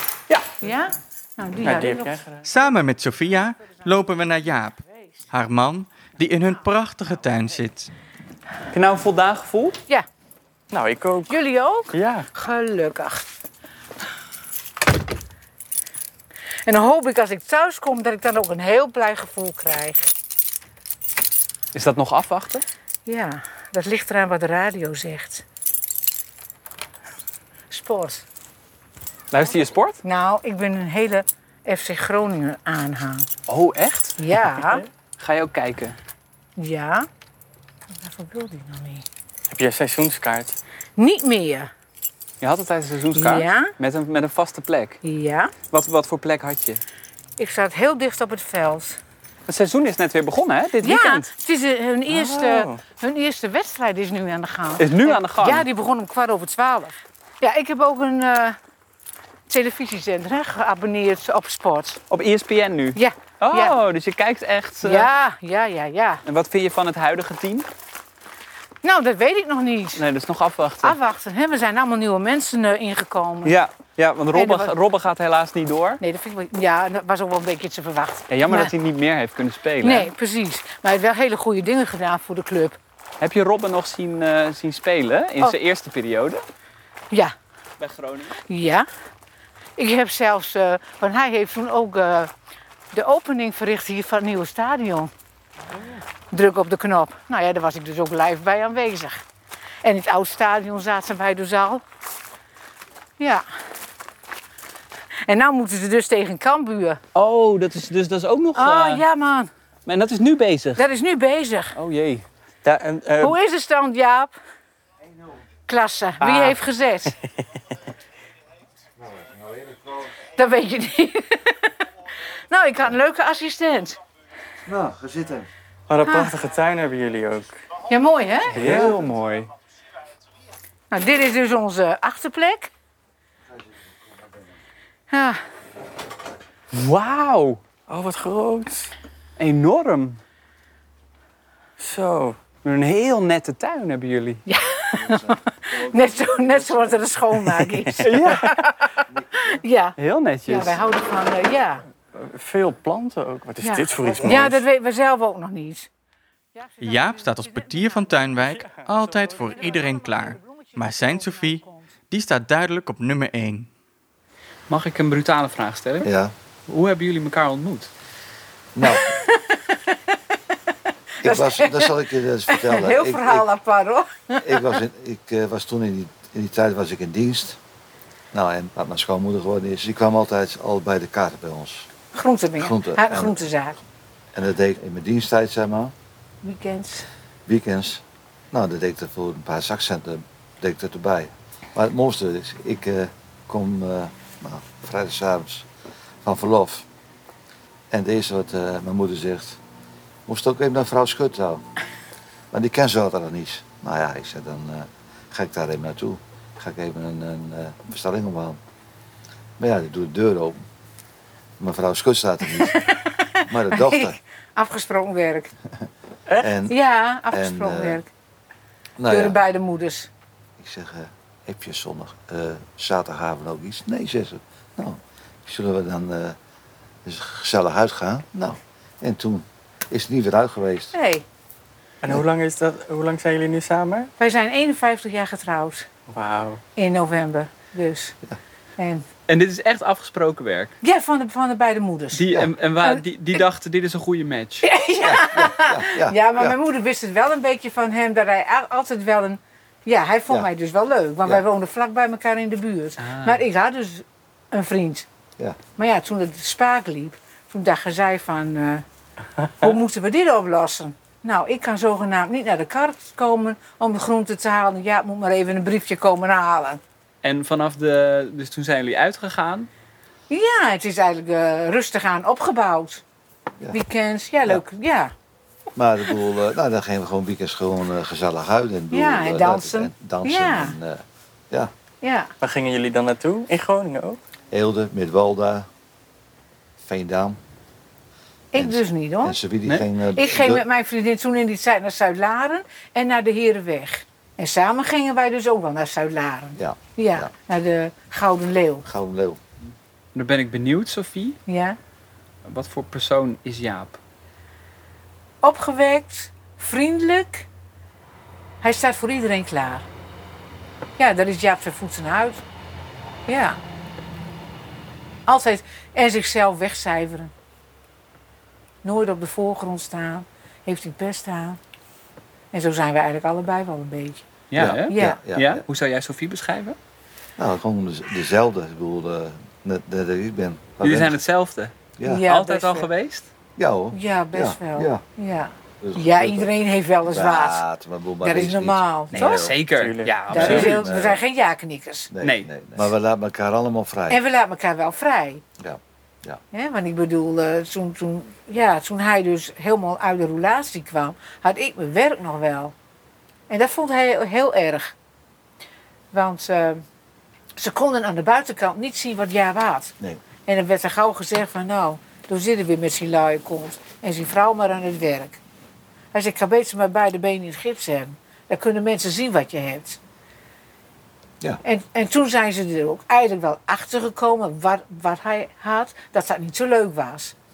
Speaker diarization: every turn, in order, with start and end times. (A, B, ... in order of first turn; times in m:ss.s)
0:00.6-0:02.2 A
0:01.6-0:07.9 B
0:08.7-0:09.8 C
0:10.7-0:11.4 B
0:11.3-0:13.2 A
0:11.9-0:12.3 B
0:16.6-0:20.1 A
0:21.7-0:22.6 C
0:23.0-0:25.4 A
0:27.7-0:28.2 A
0:29.3-0:30.0 C
0:30.0-0:33.3 A
0:33.5-0:34.2 C
0:34.2-0:34.8 A
0:35.2-0:36.0 C
0:36.6-0:37.1 A
0:37.9-0:39.0 A
0:39.5-0:40.6 B
0:41.0-0:41.7 A
0:42.4-0:45.0 C
0:43.1-0:43.7 A
0:45.0-0:45.5 A
0:45.7-0:46.8 C
0:47.4-0:49.0 A
0:49.5-0:51.2 C
0:50.8-0:58.6 A
0:52.1-0:52.8 B
0:54.8-0:55.6 C
0:59.5-1:02.0 A
1:02.1-1:05.1 C
1:03.0-1:03.7 A
1:04.8-1:06.2 A
1:06.2-1:07.7 C
1:08.8-1:10.0 A
1:10.0-1:11.0 C
1:10.8-1:13.6 A
1:13.4-1:16.0 C
1:14.3-1:14.7 A
1:16.0-1:18.7 A
1:18.3-1:20.1 C
1:19.8-1:22.8 A
1:23.2-1:26.4 C
1:27.8-1:28.4 C
1:28.5-1:28.9 A
1:29.8-1:32.3 A
1:32.9-1:35.1 A
1:36.3-1:39.2 A
1:39.8-1:41.8 A
1:43.2-1:43.4 A
1:45.3-1:47.0 A
1:47.1-1:49.0 C
1:48.5-1:49.5 A
1:49.8-1:50.8 C
1:50.8-1:51.7 A
1:51.7-1:52.2 C
1:52.6-1:53.3 B
1:53.2-1:54.3 A
1:55.7-1:57.1 A
1:56.2-1:56.6 C
1:59.4-1:59.9 D
2:00.4-2:01.6 A
2:02.5-2:04.0 A
2:04.6-2:05.5 D
2:05.9-2:07.6 B
2:06.0-2:06.4 A
2:07.9-2:08.6 A
2:08.5-2:09.5 C
2:08.6-2:08.9 B
2:10.9-2:12.7 A
2:15.1-2:15.4 A
2:16.7-2:17.6 C
2:17.9-2:18.9 B
2:19.4-2:20.2 C
2:21.8-2:22.4 B
2:22.6-2:24.4 C
2:24.5-2:28.7 A
2:25.0-2:26.9 D
2:27.7-2:28.6 B
2:28.0-2:28.5 C
2:29.4-2:31.8 A
2:30.0-2:30.8 C
2:32.1-2:34.6 B
2:33.6-2:35.9 A
2:36.8-2:43.7 B
2:44.7-2:46.1 C
2:46.0-2:46.3 D
2:46.7-2:47.9 C
2:48.7-2:49.2 D
2:48.9-2:50.0 A
2:51.2-2:53.5 D
2:51.2-2:54.8 A
2:54.4-2:57.6 D
2:58.3-3:01.9 D
3:02.1-3:03.8 A
3:02.6-3:03.4 D
3:04.3-3:05.9 D
3:06.4-3:07.1 A
3:07.4-3:15.7 D
3:16.2-3:16.8 D
3:17.9-3:19.6 D
3:20.3-3:21.6 D
3:22.5-3:28.6 D
3:29.6-3:30.6 D
3:31.6-3:32.8 D
3:32.5-3:35.5 A
3:33.5-3:34.2 D
3:36.4-3:36.8 D
3:36.7-3:38.1 A
3:37.3-3:38.0 D
3:39.0-3:39.4 D
3:39.1-3:40.1 A
3:40.6-3:46.4 D
3:47.0-3:50.9 D
3:50.9-3:51.2 A
3:52.0-3:54.1 B
3:54.2-3:55.9 A
3:56.1-3:56.6 B
3:56.8-3:58.2 A
3:58.8-3:59.0 A
3:59.3-4:00.7 C
4:00.8-4:03.0 A
4:02.1-4:04.6 C
4:04.6-4:15.0 A
4:05.0-4:06.6 D
4:13.0-4:13.4 C
4:15.8-4:18.8 A
4:19.4-4:26.8 A
4:27.2-4:29.7 C
4:30.3-4:33.0 A
4:33.7-4:35.1 A
4:35.8-4:41.7 D
4:38.9-4:40.7 A
4:42.0-4:42.3 A
4:42.4-4:44.2 B
4:44.5-4:45.7 D
4:46.8-4:47.4 D
4:48.5-4:49.4 A
4:48.5-4:50.6 D
4:50.1-4:58.8 A
4:56.6-4:57.3 D
4:58.8-4:59.4 D
5:00.1-5:01.4 C
5:01.5-5:01.8 A
5:02.4-5:04.0 C
5:05.4-5:07.5 A
5:08.6-5:09.8 A
5:11.0-5:12.4 A
5:13.3-5:13.6 A
5:15.3-5:17.3 A
5:18.8-5:21.6 A
5:22.5-5:24.2 A
5:24.5-5:26.8 C
5:24.5-5:25.6 D
5:24.9-5:25.2 A
5:27.4-5:31.2 D
5:30.8-5:33.3 C
5:32.0-5:32.3 D
5:32.0-5:32.9 A
5:33.6-5:35.0 D
5:33.9-5:37.6 A
5:35.8-5:36.5 D
5:37.0-5:39.6 D
5:38.2-5:39.5 A
5:39.1-5:40.8 C
5:39.7-5:40.6 B
5:40.3-5:41.2 D
5:40.3-5:42.1 A
5:42.1-5:44.2 D
5:42.2-5:42.5 C
5:44.1-5:45.4 A
5:45.6-5:46.4 D
5:46.5-5:52.7 A
5:53.5-5:54.9 A
5:56.1-5:56.8 A
5:57.6-6:05.4 A
6:06.1-6:10.0 A
6:11.6-6:17.3 A